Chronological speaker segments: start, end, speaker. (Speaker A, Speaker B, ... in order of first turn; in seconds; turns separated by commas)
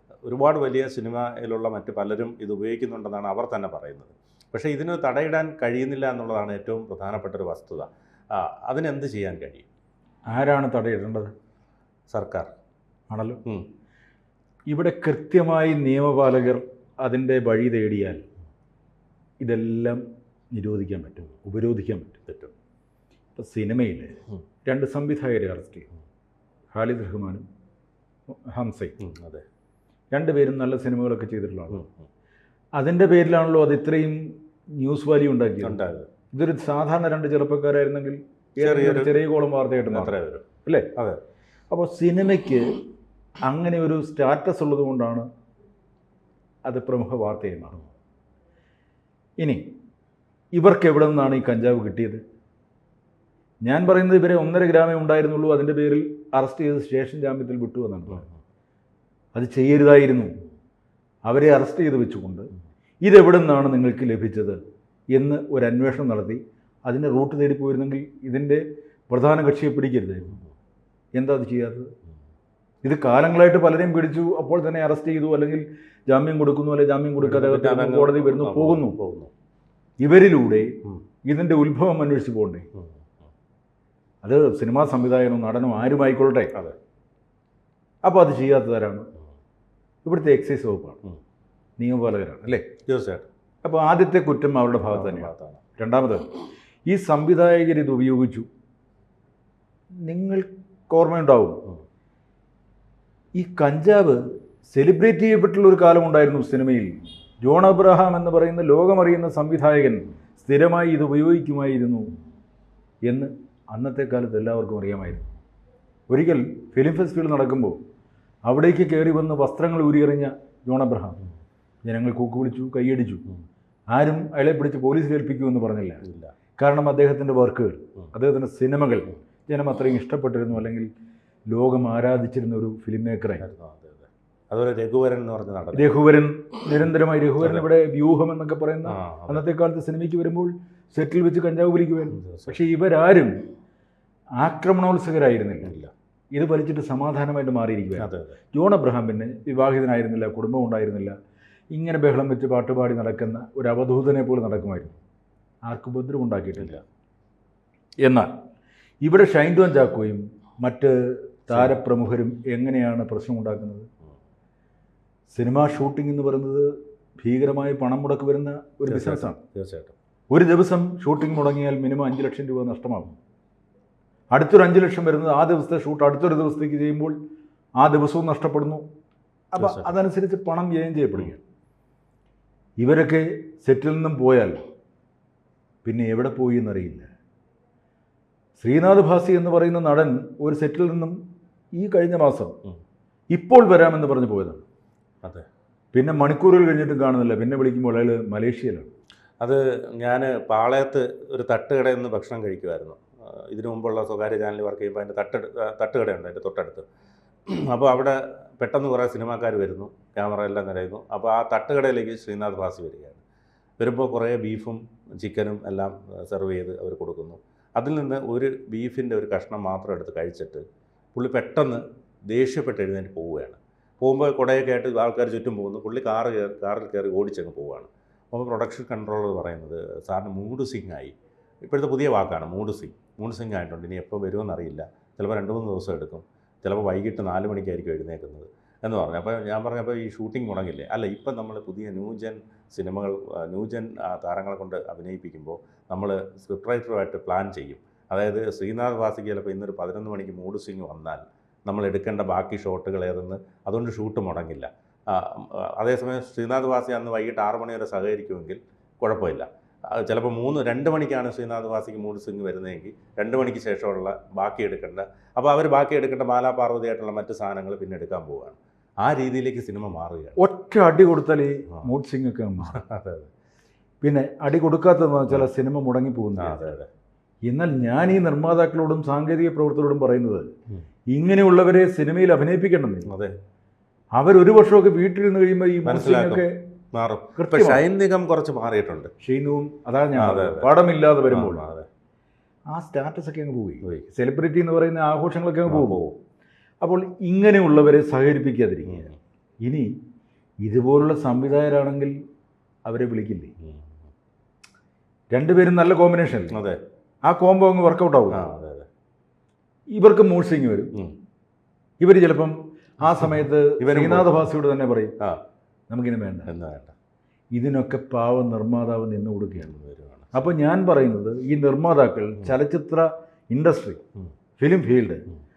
Speaker A: 0.2-9.7, Speaker B: 10.3-11.3, Speaker A: 12.1-12.5, Speaker B: 13.1-13.4, Speaker B: 14.7-18.2, Speaker B: 19.4-20.0, Speaker B: 20.5-22.2, Speaker A: 22.3-22.5, Speaker B: 23.4-25.9, Speaker B: 26.7-27.4, Speaker B: 28.3-28.9, Speaker A: 29.0-29.4, Speaker B: 30.1-31.9, Speaker B: 32.8-34.2, Speaker B: 34.8-35.8, Speaker A: 35.6-36.1, Speaker B: 36.3-40.9, Speaker A: 38.6-39.2, Speaker A: 39.9-41.2, Speaker B: 41.7-42.8, Speaker B: 43.4-45.3, Speaker B: 46.6-47.8, Speaker B: 50.5-52.2, Speaker B: 53.6-58.3, Speaker B: 59.3-60.3, Speaker B: 61.2-62.5, Speaker B: 63.0-64.6, Speaker B: 65.1-70.4, Speaker B: 71.2-71.9, Speaker B: 72.8-79.0, Speaker A: 77.2-79.3, Speaker B: 80.0-80.7, Speaker B: 81.2-82.7, Speaker A: 82.8-83.1, Speaker B: 84.2-86.5, Speaker B: 88.0-89.1, Speaker B: 90.0-91.0, Speaker B: 91.8-92.7, Speaker A: 92.9-93.3, Speaker B: 93.6-96.3, Speaker A: 94.9-95.6, Speaker B: 96.9-98.5, Speaker B: 100.0-101.6, Speaker B: 103.3-104.2, Speaker B: 104.7-112.1, Speaker B: 113.1-115.2, Speaker B: 116.1-117.8, Speaker B: 118.5-121.2, Speaker B: 121.8-123.2, Speaker B: 123.9-126.0, Speaker A: 126.0-126.3, Speaker B: 126.6-130.9, Speaker B: 131.5-133.4, Speaker A: 133.4-135.9, Speaker B: 135.7-143.4, Speaker A: 138.9-139.4, Speaker A: 142.2-142.6, Speaker B: 144.4-145.8, Speaker A: 145.6-145.9, Speaker B: 146.3-151.1, Speaker A: 148.0-148.4, Speaker B: 151.7-154.9, Speaker B: 155.7-156.8, Speaker B: 158.0-158.3, Speaker B: 159.0-163.9, Speaker B: 165.3-169.4, Speaker A: 168.9-169.9, Speaker B: 170.3-173.2, Speaker B: 174.3-177.2, Speaker B: 177.8-178.8, Speaker B: 179.5-181.4, Speaker A: 179.6-179.9, Speaker B: 182.8-184.6, Speaker B: 185.8-187.1, Speaker B: 188.6-191.2, Speaker B: 191.8-192.6, Speaker B: 193.3-194.6, Speaker B: 195.9-198.9, Speaker A: 199.4-206.9, Speaker A: 207.5-213.2, Speaker A: 213.8-270.4, Speaker B: 270.4-272.8, Speaker A: 272.6-273.3, Speaker B: 274.0-276.7, Speaker A: 276.4-276.9, Speaker B: 277.4-280.5, Speaker B: 281.1-283.1, Speaker A: 283.1-283.3, Speaker B: 284.1-286.6, Speaker A: 285.9-289.1, Speaker B: 287.4-287.8, Speaker B: 289.2-291.7, Speaker A: 290.2-290.7, Speaker A: 291.3-291.9, Speaker B: 292.7-296.0, Speaker A: 295.7-296.2, Speaker B: 296.8-299.1, Speaker A: 298.9-299.1, Speaker B: 300.6-302.1, Speaker B: 302.9-303.5, Speaker A: 303.6-304.0, Speaker B: 305.3-306.6, Speaker A: 306.5-306.8, Speaker B: 307.2-308.4, Speaker A: 308.3-308.9, Speaker B: 309.9-310.9, Speaker B: 312.0-315.1, Speaker A: 313.8-314.5, Speaker B: 315.9-316.5, Speaker A: 316.5-316.9, Speaker B: 317.5-319.7, Speaker A: 319.6-320.5, Speaker B: 320.3-324.0, Speaker B: 324.6-325.3